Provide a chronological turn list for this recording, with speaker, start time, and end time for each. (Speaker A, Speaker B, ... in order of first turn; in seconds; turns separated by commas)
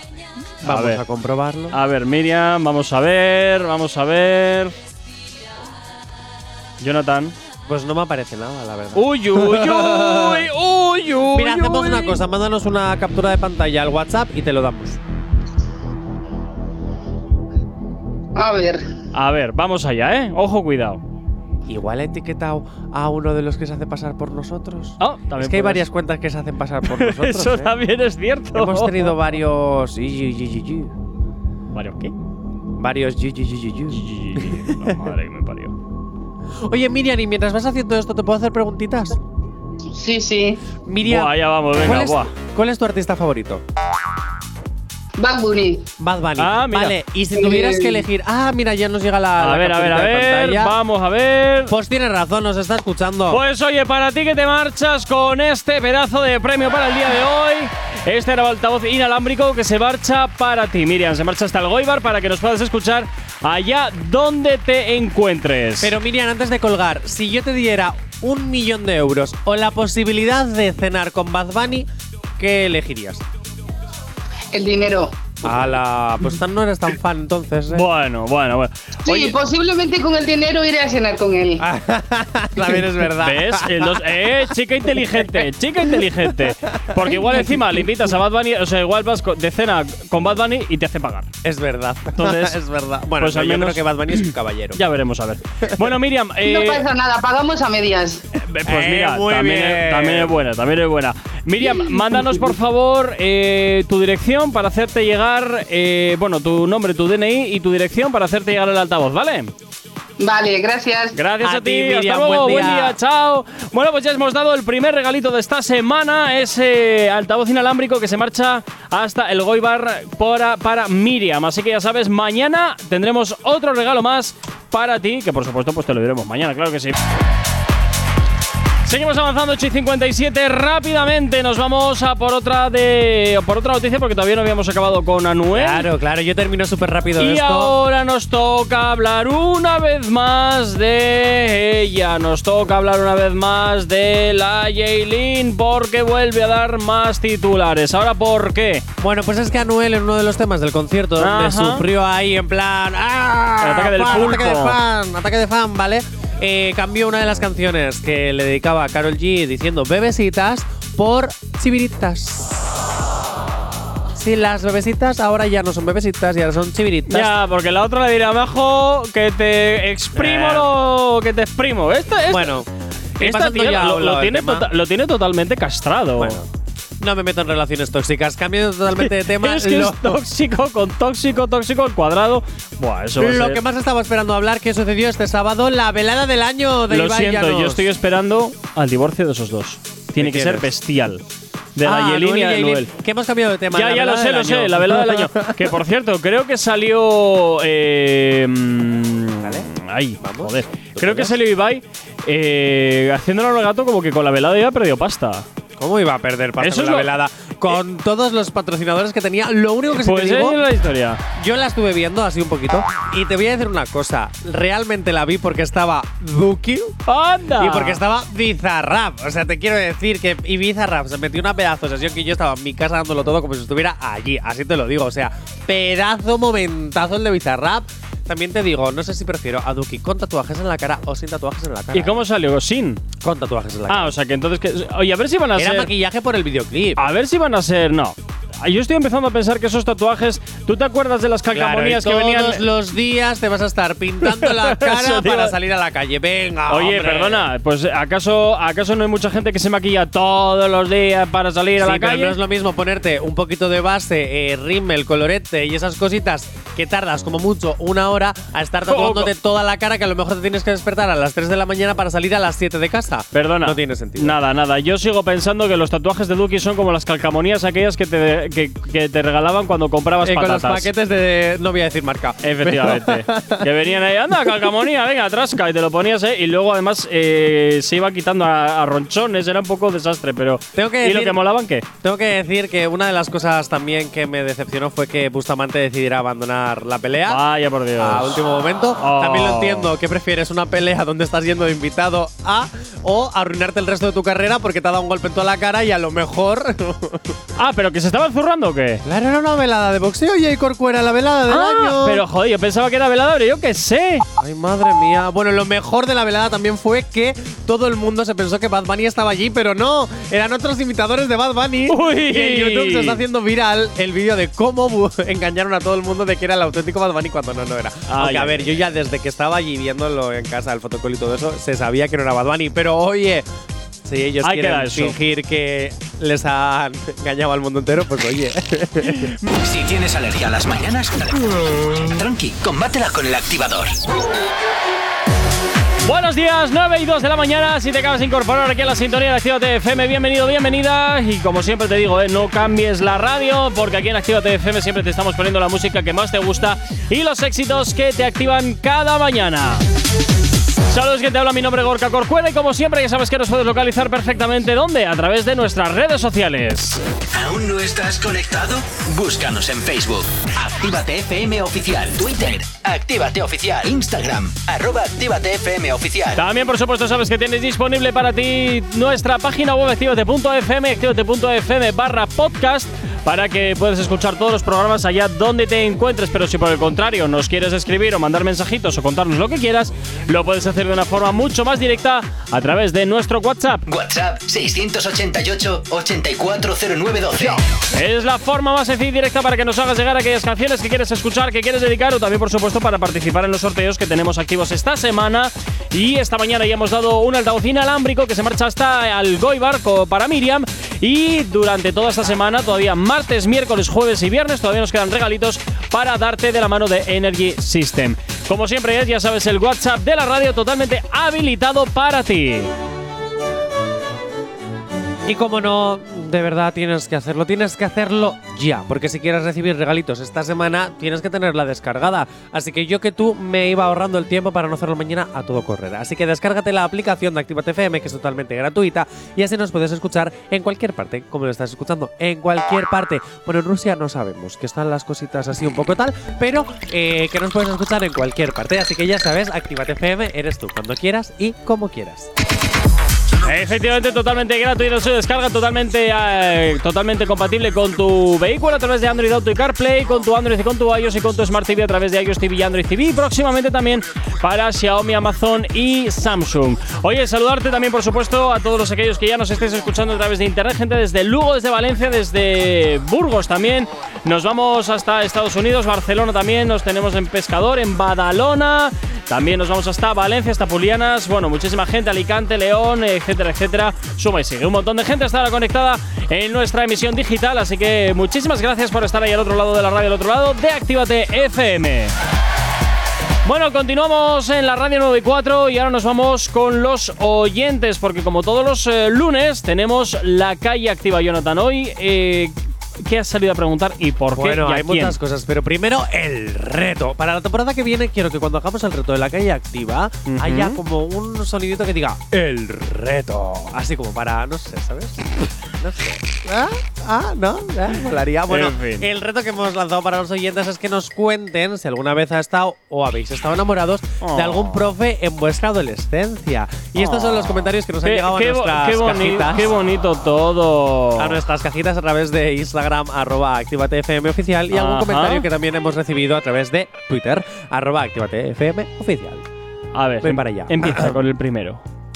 Speaker A: 0.6-1.8, Speaker B: 0.6-1.0, Speaker B: 1.7-4.7, Speaker B: 6.8-7.3, Speaker A: 7.7-10.5, Speaker B: 8.9-12.2, Speaker A: 11.3-15.0, Speaker C: 18.4-18.8, Speaker B: 19.1-21.0, Speaker A: 21.7-27.8, Speaker B: 25.0-25.9, Speaker B: 26.9-29.2, Speaker A: 28.5-30.9, Speaker B: 31.7-32.1, Speaker A: 32.8-34.9, Speaker B: 33.9-35.8, Speaker A: 36.6-39.2, Speaker C: 39.9-40.6, Speaker A: 40.9-43.6, Speaker B: 41.0-42.3, Speaker C: 45.2-45.9, Speaker A: 46.0-50.8, Speaker B: 46.4-47.0, Speaker C: 47.3-48.0, Speaker B: 49.4-51.7, Speaker A: 51.7-53.4, Speaker B: 53.3-65.9, Speaker A: 65.8-73.2, Speaker C: 74.5-75.2, Speaker A: 75.4-77.9, Speaker B: 77.7-79.3, Speaker C: 79.1-81.6, Speaker A: 81.6-84.0, Speaker B: 83.2-91.3, Speaker A: 86.9-87.5, Speaker A: 91.4-94.8, Speaker B: 92.2-92.6, Speaker B: 93.2-94.2, Speaker B: 94.8-96.8, Speaker C: 96.4-98.2, Speaker B: 98.3-109.5, Speaker A: 98.7-100.4, Speaker C: 110.2-111.2, Speaker B: 111.1-127.0, Speaker A: 111.4-113.0, Speaker B: 128.8-135.9, Speaker A: 135.5-137.7, Speaker B: 137.2-148.9, Speaker A: 149.0-163.0, Speaker B: 151.2-151.8, Speaker B: 153.6-154.8, Speaker A: 164.1-167.3, Speaker B: 167.1-172.5, Speaker A: 170.2-170.7, Speaker A: 172.3-174.7, Speaker B: 173.2-176.4, Speaker A: 176.2-176.5, Speaker A: 177.0-180.2, Speaker B: 178.9-183.6, Speaker A: 183.2-187.9, Speaker B: 186.9-191.2, Speaker A: 190.2-190.7, Speaker B: 191.8-192.9, Speaker A: 191.8-195.7, Speaker B: 193.7-205.5, Speaker A: 199.4-201.4, Speaker A: 205.8-210.6, Speaker B: 206.6-207.1, Speaker B: 209.9-211.2, Speaker A: 211.4-217.0, Speaker B: 217.1-218.0, Speaker A: 217.6-232.2, Speaker B: 231.9-233.0, Speaker A: 233.2-234.2, Speaker B: 233.9-235.9, Speaker A: 235.6-237.0, Speaker B: 237.0-242.7, Speaker A: 241.5-247.5, Speaker B: 244.2-245.5, Speaker B: 246.7-252.4, Speaker A: 251.8-264.4, Speaker B: 258.9-259.3, Speaker B: 263.3-270.9, Speaker A: 270.2-273.7, Speaker B: 272.4-281.9, Speaker A: 280.8-281.4, Speaker A: 282.0-287.4, Speaker B: 287.3-288.4, Speaker A: 288.0-297.4, Speaker B: 289.0-289.9, Speaker B: 297.6-299.0, Speaker A: 299.0-302.2, Speaker B: 301.5-304.2, Speaker A: 304.4-323.5, Speaker B: 311.9-313.2, Speaker B: 318.1-318.8, Speaker A: 324.1-329.3, Speaker B: 324.4-325.2, Speaker D: 329.5-334.0, Speaker B: 336.0-349.8, Speaker B: 350.9-357.0, Speaker D: 357.3-366.4, Speaker B: 366.4-383.9, Speaker D: 383.9-387.6, Speaker B: 387.9-412.7, Speaker A: 415.2-442.3, Speaker B: 443.4-482.1, Speaker B: 483.4-495.2, Speaker A: 494.3-519.7, Speaker B: 500.2-500.8, Speaker B: 508.5-509.1, Speaker B: 514.2-514.9, Speaker B: 517.0-521.4, Speaker A: 521.2-529.5, Speaker B: 524.7-525.5, Speaker B: 529.9-531.8, Speaker A: 530.2-531.2